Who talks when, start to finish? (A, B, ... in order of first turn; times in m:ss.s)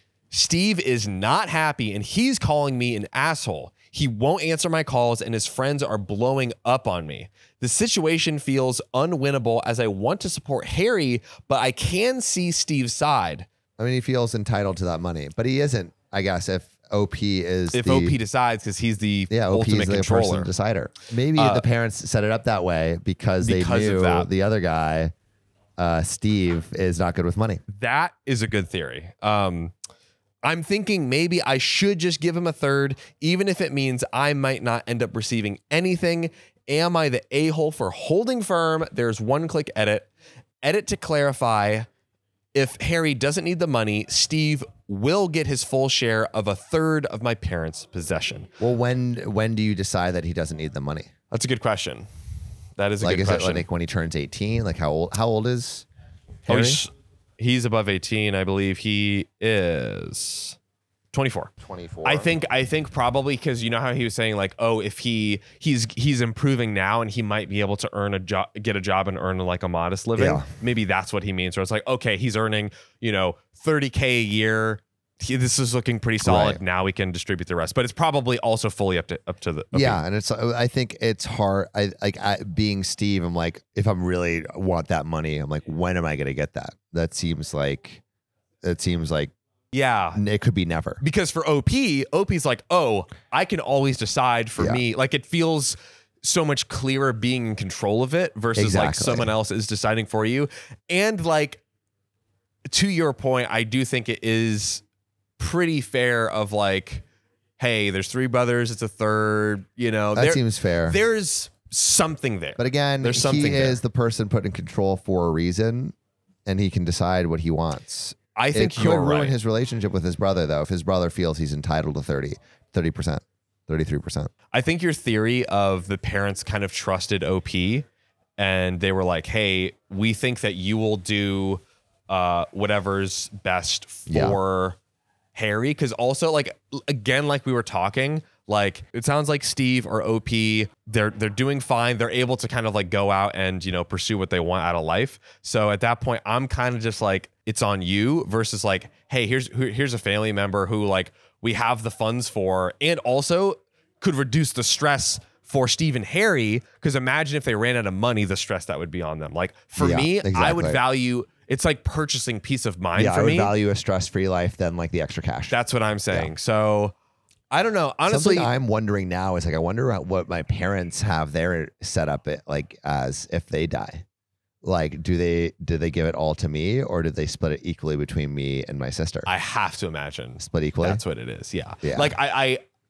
0:00.3-0:13.5 A
0:13.8-0:18.2 B
0:17.7-0:20.5 A
0:19.3-0:25.1 B
0:21.4-0:21.6 A
0:23.4-0:24.3 A
0:25.8-0:27.6 B
0:27.7-0:29.7 A
0:30.4-0:40.1 A
0:40.6-0:41.9 A
0:42.5-0:48.5 A
0:48.6-0:51.1 B
0:51.3-0:52.1 A
0:52.8-0:53.6 A
0:53.0-0:55.8 B
0:56.4-0:56.8 B
0:56.5-1:00.6 A
1:01.1-1:01.5 A
1:01.6-1:02.3 B
1:02.0-1:20.0 A
1:10.2-1:10.4 B
1:16.2-1:16.6 B
1:19.7-1:28.0 B
1:28.6-1:29.3 B
1:29.7-1:30.2 A
1:30.1-1:31.0 B
1:31.0-1:41.6 A
1:34.6-1:34.8 B
1:38.6-1:39.3 B
1:42.7-1:44.8 A
1:45.4-1:47.0 A
1:47.6-1:53.8 A
1:50.1-1:51.0 B
1:52.6-1:55.9 B
1:56.4-2:04.3 B
1:58.4-1:59.3 A
2:04.5-2:07.8 A
2:08.4-2:14.8 A
2:14.1-2:14.4 B
2:15.3-2:43.5 A
2:39.8-2:40.8 B
2:42.9-2:45.6 B
2:45.5-2:46.9 A
2:47.5-2:48.5 A
2:48.1-2:54.0 B
2:54.6-2:59.3 B
2:59.2-3:02.6 A
3:00.4-3:01.0 B
3:01.8-3:02.1 B